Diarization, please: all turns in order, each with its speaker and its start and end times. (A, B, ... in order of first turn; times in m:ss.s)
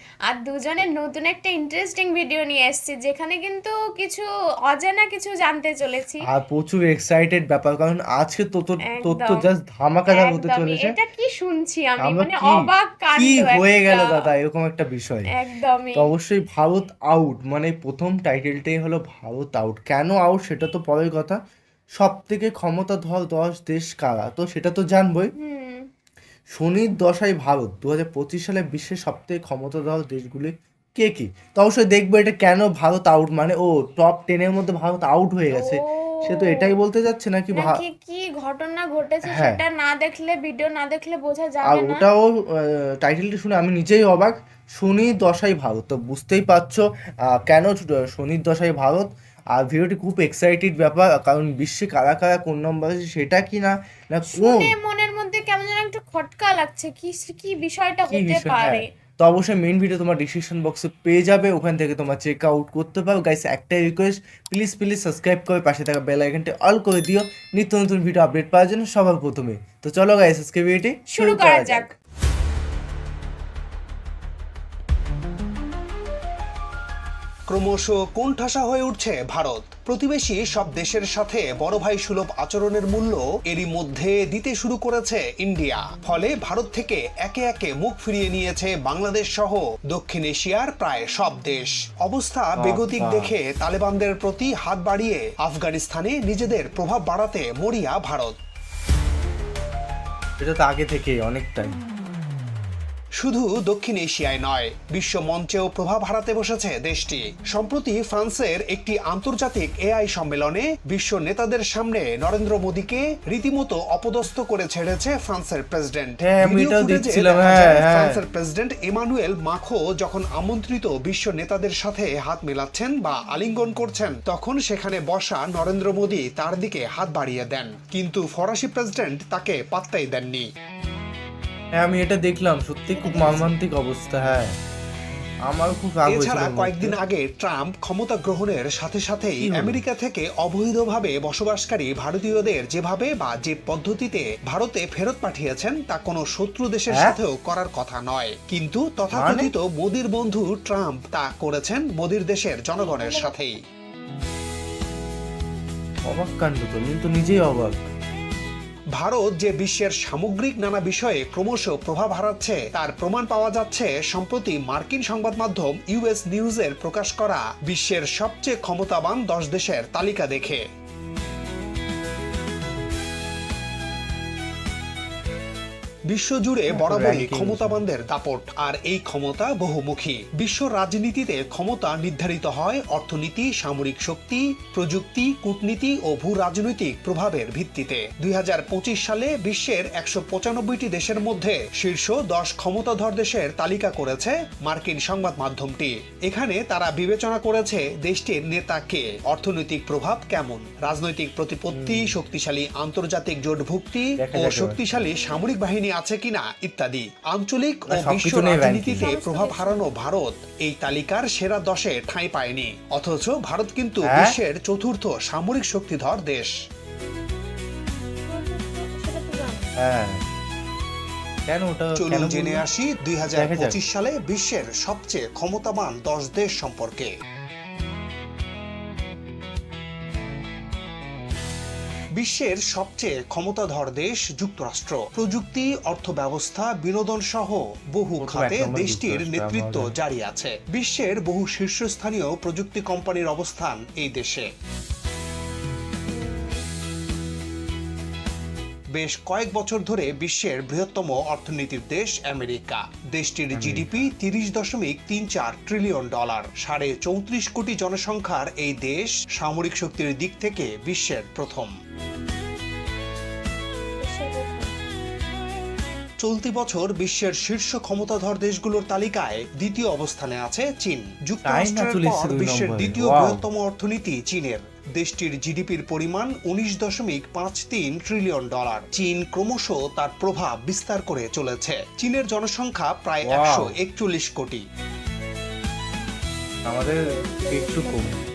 0:00.3-0:06.2 A
0:06.3-0:11.0 B
0:08.9-0:09.5 A
0:10.1-0:14.2 A
0:12.0-0:15.3 B
0:15.3-0:16.1 A
0:16.0-0:21.4 B
0:22.0-0:25.3 B
0:25.4-0:25.9 A
0:26.5-0:37.8 B
0:35.5-0:36.7 A
0:37.5-0:42.0 A
0:39.3-0:39.6 B
0:41.7-0:46.8 B
0:47.5-0:54.7 B
0:54.3-0:58.8 A
0:58.1-1:11.9 B
1:11.1-1:11.9 A
1:17.5-1:38.4 C
1:32.6-1:33.3 B
1:40.4-1:41.8 B
1:43.2-2:10.4 C
1:56.2-1:58.2 B
2:11.8-2:14.5 B
2:12.9-2:13.5 A
2:15.5-2:17.0 B
2:16.1-2:33.6 C
2:19.4-2:19.8 B
2:29.1-2:29.5 B
2:32.8-2:33.4 A
2:36.1-2:37.8 B
2:39.0-2:50.6 C
2:56.1-3:36.5 C
2:56.7-2:57.8 B
3:21.7-3:22.2 B
3:24.2-3:24.8 B
3:27.9-3:29.1 B
3:29.0-3:29.9 A
3:34.0-3:34.4 B
3:38.3-3:39.7 A
3:39.8-3:40.2 B
3:41.5-3:42.6 B
3:42.0-3:47.1 C
3:43.4-3:43.8 B
3:52.2-4:04.5 C
3:58.2-3:59.9 B
4:06.1-4:06.6 A
4:08.9-4:21.7 C
4:13.5-4:14.1 B
4:24.0-4:24.7 A
4:26.2-4:44.6 C
4:31.4-4:33.4 B
4:43.2-4:43.7 B
4:46.7-4:48.2 B
4:47.0-4:48.1 A